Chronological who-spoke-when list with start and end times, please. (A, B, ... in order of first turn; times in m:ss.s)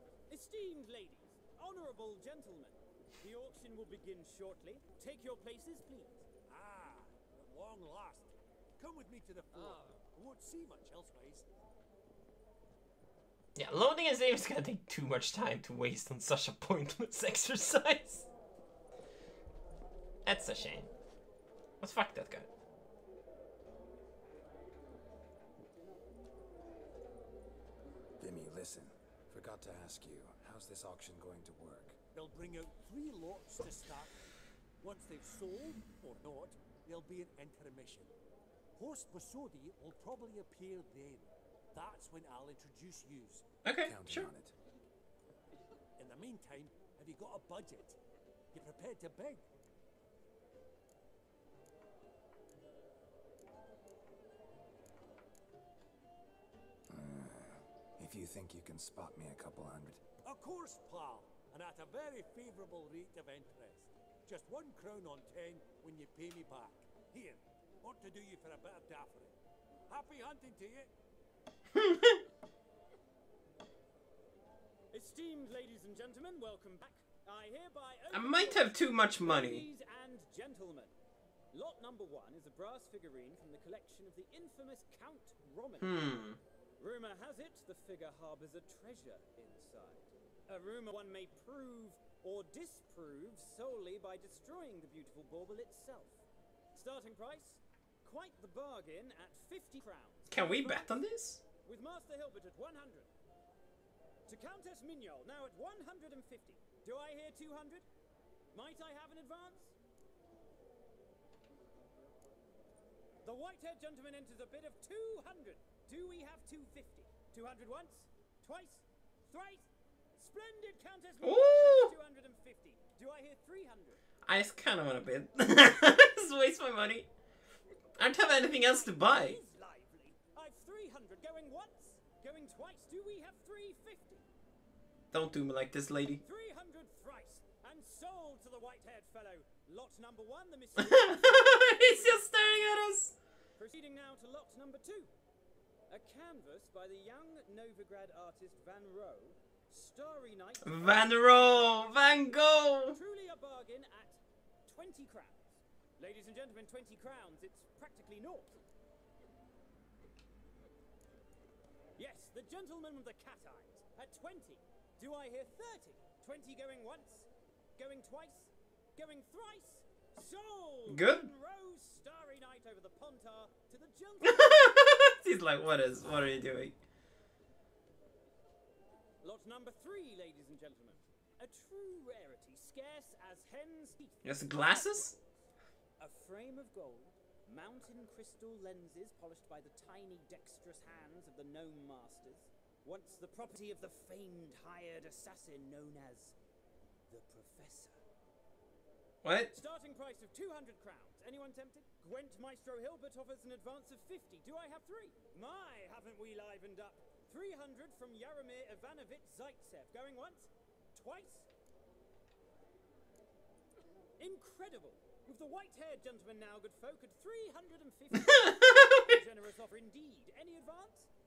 0:00.3-0:06.2 A
0:06.4-0:11.4 B
0:13.6-0:18.3 C
0:20.2-0:20.9 C
0:21.8-0:22.5 C
0:28.2-0:32.0 D
0:32.1-0:34.2 B
0:34.8-0:38.1 B
0:38.8-0:43.4 B
0:43.6-0:44.3 C
0:43.8-0:44.6 D
0:46.0-0:48.0 B
0:48.5-0:49.4 B
0:56.9-1:00.0 D
1:00.2-1:09.4 B
1:09.9-1:10.9 B
1:11.7-1:12.2 C
1:14.9-1:20.9 A
1:18.1-1:19.6 C
1:21.5-1:26.2 A
1:25.8-1:26.4 C
1:26.8-1:41.0 A
1:40.3-1:41.4 C
1:41.6-1:43.1 A
1:44.3-1:47.8 A
1:48.5-1:49.7 A
1:53.2-2:04.0 A
2:01.2-2:01.9 C
2:04.2-2:07.1 C
2:08.0-2:09.4 C
2:08.6-2:14.3 A
2:15.1-2:16.2 C
2:16.2-2:22.3 A
2:20.8-2:23.1 C
2:23.6-2:25.1 A
2:25.9-2:38.5 A
2:30.6-2:33.0 C
2:42.0-2:55.0 A
2:50.9-2:51.3 C
2:54.2-2:56.7 C
2:59.2-3:05.1 A
3:04.2-3:05.2 C
3:06.0-3:16.3 A
3:17.1-3:18.0 A
3:19.2-3:19.5 C
3:19.5-3:31.5 A
3:34.2-3:41.1 A
3:38.2-3:39.1 C